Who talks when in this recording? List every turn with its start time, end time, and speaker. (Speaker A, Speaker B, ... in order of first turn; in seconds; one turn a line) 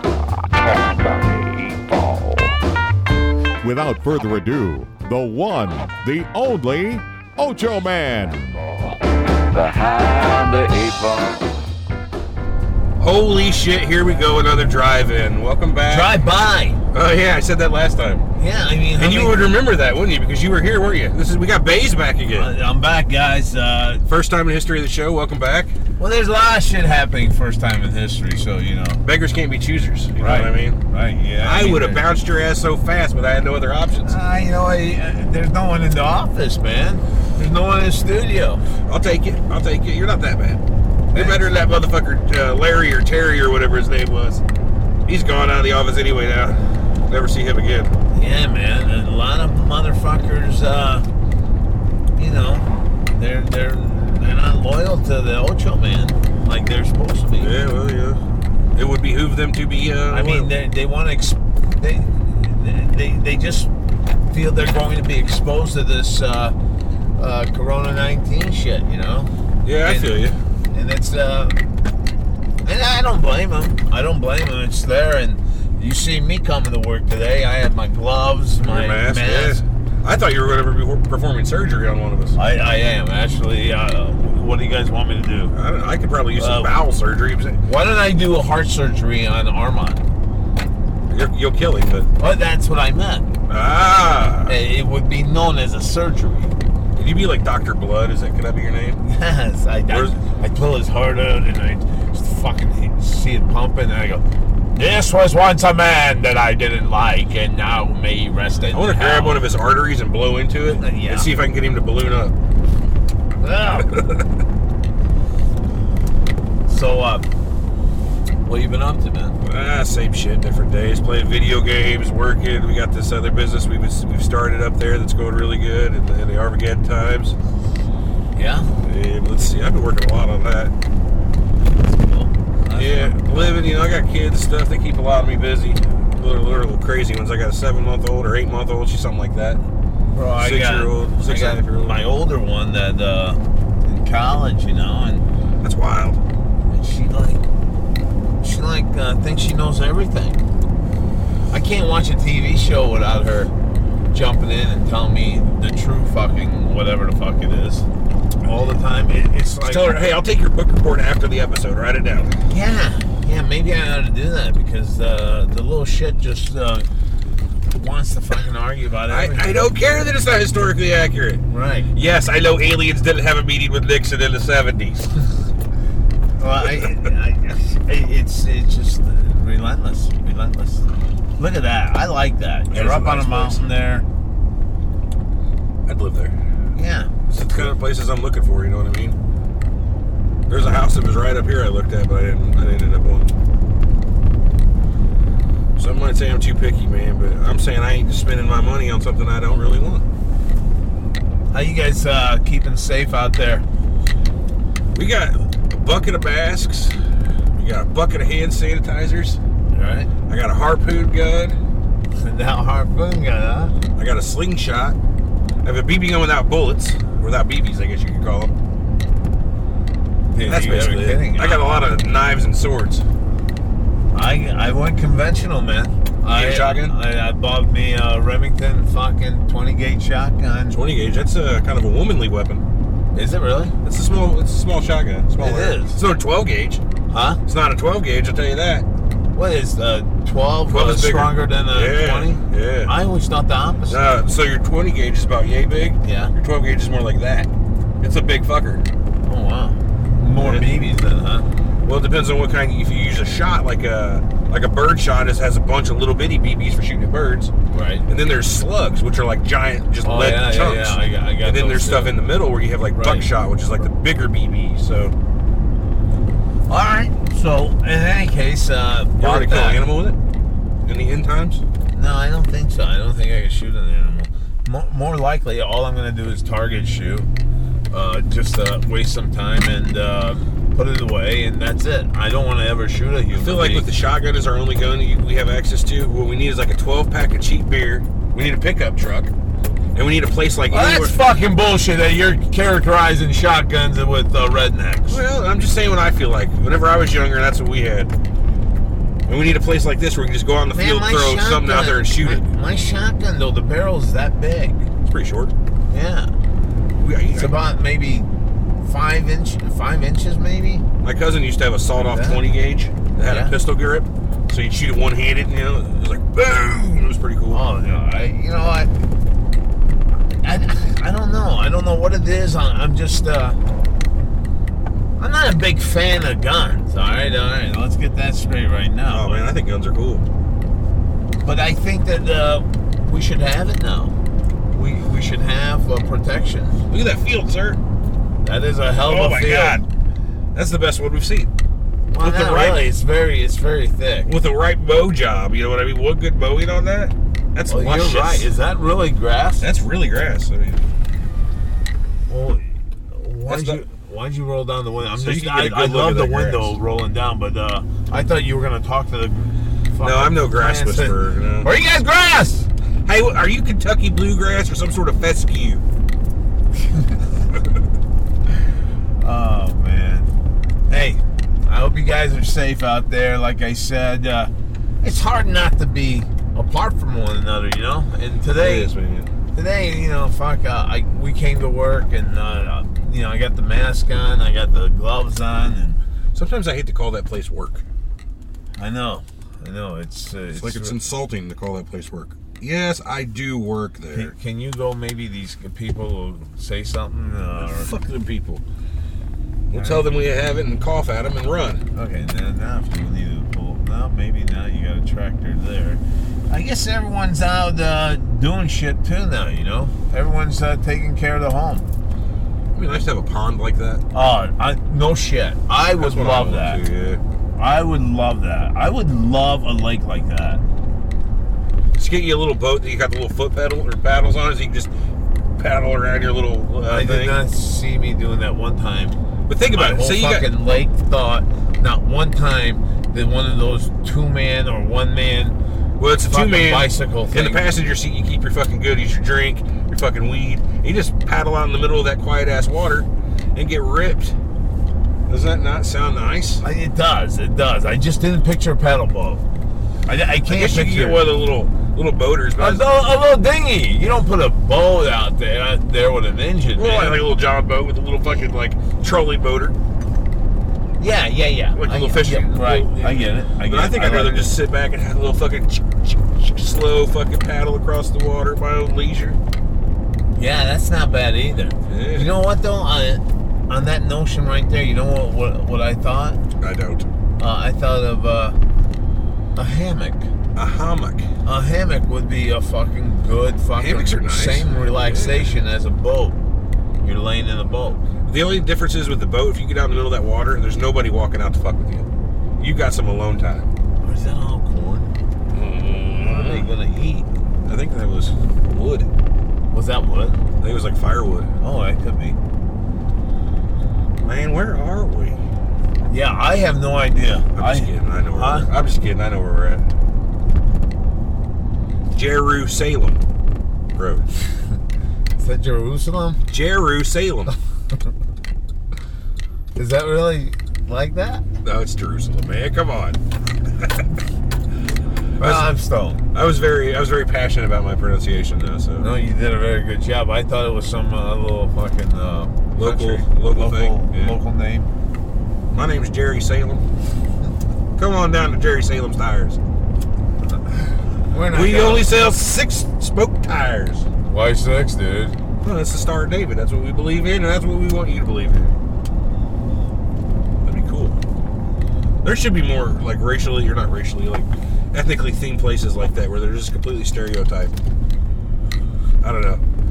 Speaker A: 0.6-2.6
Speaker B: 3.6-8.7
Speaker A: 8.7-8.9
Speaker A: 9.5-11.5
Speaker C: 13.0-16.1
Speaker D: 15.9-16.8
Speaker C: 16.9-18.3
Speaker D: 18.4-19.4
Speaker C: 18.9-22.5
Speaker D: 22.3-24.0
Speaker C: 24.1-25.7
Speaker D: 26.0-29.0
Speaker C: 29.0-30.8
Speaker D: 30.2-32.0
Speaker C: 31.4-34.1
Speaker D: 34.0-38.6
Speaker C: 38.9-40.6
Speaker D: 41.1-41.4
Speaker C: 41.1-44.4
Speaker C: 45.0-47.9
Speaker D: 48.1-51.0
Speaker D: 52.2-57.6
Speaker C: 57.4-58.2
Speaker C: 58.8-60.5
Speaker D: 60.1-63.7
Speaker D: 64.3-66.5
Speaker D: 67.2-71.6
Speaker C: 69.6-70.4
Speaker D: 72.6-79.6
Speaker C: 78.6-82.4
Speaker D: 82.3-85.5
Speaker C: 85.5-87.6
Speaker D: 86.4-86.7
Speaker D: 87.6-90.0
Speaker C: 91.1-92.1
Speaker D: 92.2-93.3
Speaker C: 93.5-94.5
Speaker D: 94.5-96.5
Speaker C: 97.0-99.0
Speaker D: 99.0-104.2
Speaker C: 99.9-100.2
Speaker D: 104.7-109.4
Speaker C: 108.7-112.3
Speaker D: 110.8-111.3
Speaker D: 113.4-113.9
Speaker C: 113.8-114.2
Speaker D: 116.7-117.2
Speaker D: 118.4-119.3
Speaker C: 119.4-127.3
Speaker D: 128.3-128.7
Speaker C: 128.8-130.7
Speaker D: 131.6-133.5
Speaker C: 132.8-139.6
Speaker D: 140.1-145.2
Speaker C: 140.4-142.0
Speaker C: 145.6-146.2
Speaker D: 146.7-147.4
Speaker D: 148.4-150.4
Speaker D: 151.5-153.5
Speaker D: 154.1-157.8
Speaker D: 158.4-160.0
Speaker C: 159.6-162.3
Speaker D: 162.5-166.9
Speaker D: 167.7-169.6
Speaker C: 169.1-175.1
Speaker D: 171.5-171.9
Speaker D: 176.4-184.1
Speaker C: 182.7-183.6
Speaker C: 185.8-186.3
Speaker D: 186.7-187.7
Speaker C: 187.3-189.2
Speaker C: 190.5-193.3
Speaker C: 195.8-200.0
Speaker D: 201.5-203.6
Speaker C: 204.9-207.0
Speaker C: 207.5-209.4
Speaker D: 209.7-210.1
Speaker C: 210.3-211.6
Speaker D: 212.2-213.7
Speaker C: 213.9-214.9
Speaker C: 215.6-218.5
Speaker D: 220.3-221.7
Speaker C: 220.4-223.0
Speaker D: 224.1-230.8
Speaker C: 226.3-226.9
Speaker C: 230.7-232.6
Speaker D: 233.1-233.7
Speaker C: 233.8-236.8
Speaker D: 235.4-236.0
Speaker D: 237.1-237.4
Speaker C: 237.4-238.8
Speaker D: 239.3-244.0
Speaker C: 240.7-242.9
Speaker C: 243.9-247.5
Speaker D: 246.0-246.3
Speaker C: 248.0-248.8
Speaker D: 249.2-251.5
Speaker C: 250.4-250.7
Speaker C: 251.8-257.5
Speaker D: 257.7-258.0
Speaker C: 258.1-265.1
Speaker D: 260.0-262.2
Speaker D: 262.9-263.3
Speaker D: 266.7-269.8
Speaker C: 269.2-270.2
Speaker C: 270.9-271.6
Speaker D: 271.9-277.3
Speaker D: 277.9-283.9
Speaker C: 283.3-289.3
Speaker C: 289.9-291.2
Speaker D: 290.7-295.2
Speaker C: 295.1-298.1
Speaker C: 299.3-302.4
Speaker D: 300.7-304.9
Speaker C: 305.1-305.5
Speaker D: 305.9-306.3
Speaker C: 307.0-307.5
Speaker D: 307.3-308.3
Speaker D: 308.8-310.8
Speaker C: 311.0-317.6
Speaker D: 312.0-312.4
Speaker D: 313.3-313.5
Speaker D: 317.5-318.9
Speaker D: 320.4-323.6
Speaker D: 325.2-329.5
Speaker C: 329.1-330.2
Speaker D: 331.4-334.1
Speaker D: 334.7-336.8
Speaker C: 336.9-337.8
Speaker D: 338.4-339.8
Speaker C: 339.0-339.9
Speaker C: 340.5-341.5
Speaker D: 342.1-344.3
Speaker C: 342.2-342.8
Speaker C: 344.2-348.5
Speaker D: 347.7-349.7
Speaker C: 349.6-350.9
Speaker D: 352.3-362.7
Speaker C: 353.5-353.8
Speaker C: 355.2-356.7
Speaker C: 360.0-361.7
Speaker C: 363.1-365.8
Speaker D: 369.2-370.3
Speaker D: 370.9-374.5
Speaker D: 375.0-378.9
Speaker C: 378.5-379.3
Speaker D: 379.5-386.0
Speaker C: 386.3-387.8
Speaker D: 388.8-391.0
Speaker C: 390.5-394.3
Speaker D: 394.1-397.9
Speaker C: 397.6-398.6
Speaker C: 399.7-401.8
Speaker D: 399.7-400.0
Speaker D: 401.9-411.8
Speaker C: 412.7-414.0
Speaker D: 414.1-416.8
Speaker C: 416.0-417.2
Speaker D: 417.6-420.6
Speaker C: 422.0-424.9
Speaker C: 425.6-427.4
Speaker D: 426.8-435.6
Speaker C: 429.5-430.5
Speaker C: 436.0-444.3
Speaker D: 436.2-437.6
Speaker C: 445.3-446.6
Speaker D: 446.6-449.4
Speaker D: 450.1-451.2
Speaker C: 450.5-452.9
Speaker D: 452.6-457.2
Speaker C: 456.8-459.8
Speaker D: 461.0-464.5
Speaker C: 461.8-469.4
Speaker D: 470.3-476.4
Speaker C: 471.9-472.3
Speaker C: 476.6-477.1
Speaker D: 477.4-478.6
Speaker D: 479.6-480.3
Speaker C: 480.5-481.3
Speaker D: 481.4-486.4
Speaker C: 483.8-485.5
Speaker D: 487.0-488.0
Speaker C: 488.2-492.1
Speaker C: 492.6-493.7
Speaker D: 494.0-495.1
Speaker C: 495.5-496.6
Speaker D: 496.2-497.2
Speaker C: 497.6-499.1
Speaker D: 499.7-500.4
Speaker C: 500.6-501.5
Speaker D: 501.6-502.4
Speaker C: 504.2-505.4
Speaker D: 506.1-508.7
Speaker C: 507.5-509.8
Speaker C: 512.1-513.2
Speaker C: 513.9-514.2
Speaker D: 515.4-516.4
Speaker C: 516.5-517.5
Speaker D: 519.8-521.4
Speaker C: 521.6-523.2
Speaker C: 525.4-525.7
Speaker D: 525.4-526.2
Speaker C: 526.3-529.1
Speaker D: 529.0-534.9
Speaker C: 532.7-534.4
Speaker C: 535.7-536.8
Speaker C: 538.0-539.6
Speaker D: 541.3-542.1
Speaker C: 541.5-544.1
Speaker D: 544.2-545.4
Speaker C: 545.6-548.7
Speaker C: 550.6-551.2
Speaker C: 552.2-557.8
Speaker C: 559.2-559.6